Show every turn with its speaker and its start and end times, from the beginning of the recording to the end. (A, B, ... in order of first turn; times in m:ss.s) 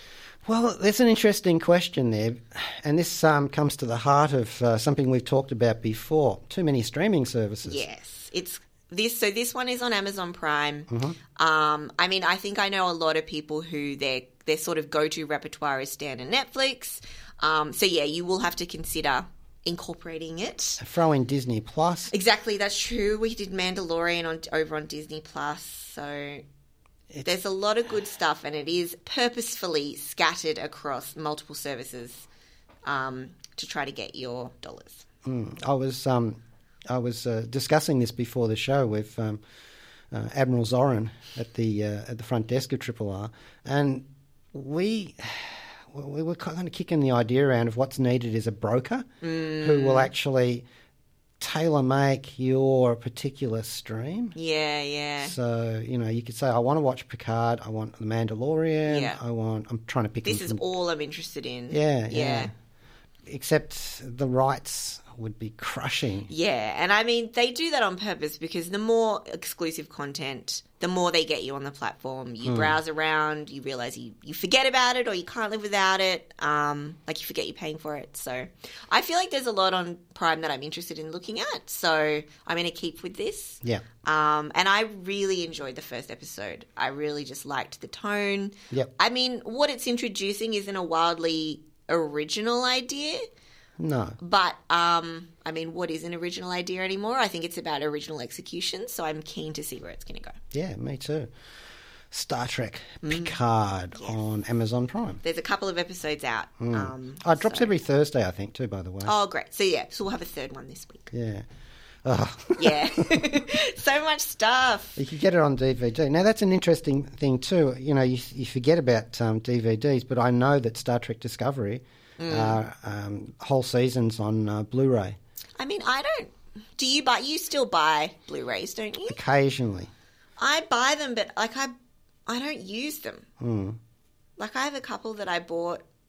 0:00.4-0:07.8 A
0:07.6-0:20.8 B
0:10.9-0:11.2 A
0:20.8-0:22.1 A
0:22.1-0:26.4 B
0:27.2-0:32.2 B
0:32.8-0:35.0 B
0:35.2-0:39.4 A
0:40.1-0:49.1 A
0:49.2-0:50.1 B
0:49.6-0:50.6 A
0:51.4-0:54.4 A
0:54.3-0:55.3 B
0:55.2-1:00.6 A
0:58.8-0:59.2 B
1:00.2-1:02.5 B
1:01.7-1:02.5 A
1:03.2-1:06.3 A
1:06.3-1:33.3 B
1:12.4-1:12.8 A
1:33.8-1:34.2 A
1:34.2-1:40.4 B
1:40.5-1:41.3 A
1:42.1-1:45.2 A
1:43.0-1:43.3 B
1:45.2-1:47.7 B
1:46.6-1:49.1 A
1:49.0-1:51.1 B
1:51.1-1:51.4 A
1:52.0-1:53.2 A
1:52.6-1:55.0 B
1:55.0-2:05.2 A
2:02.2-2:02.6 B
2:05.6-2:09.2 B
2:09.1-2:09.9 A
2:10.4-2:11.7 B
2:12.3-2:13.3 B
2:13.4-2:13.8 A
2:14.4-2:15.8 B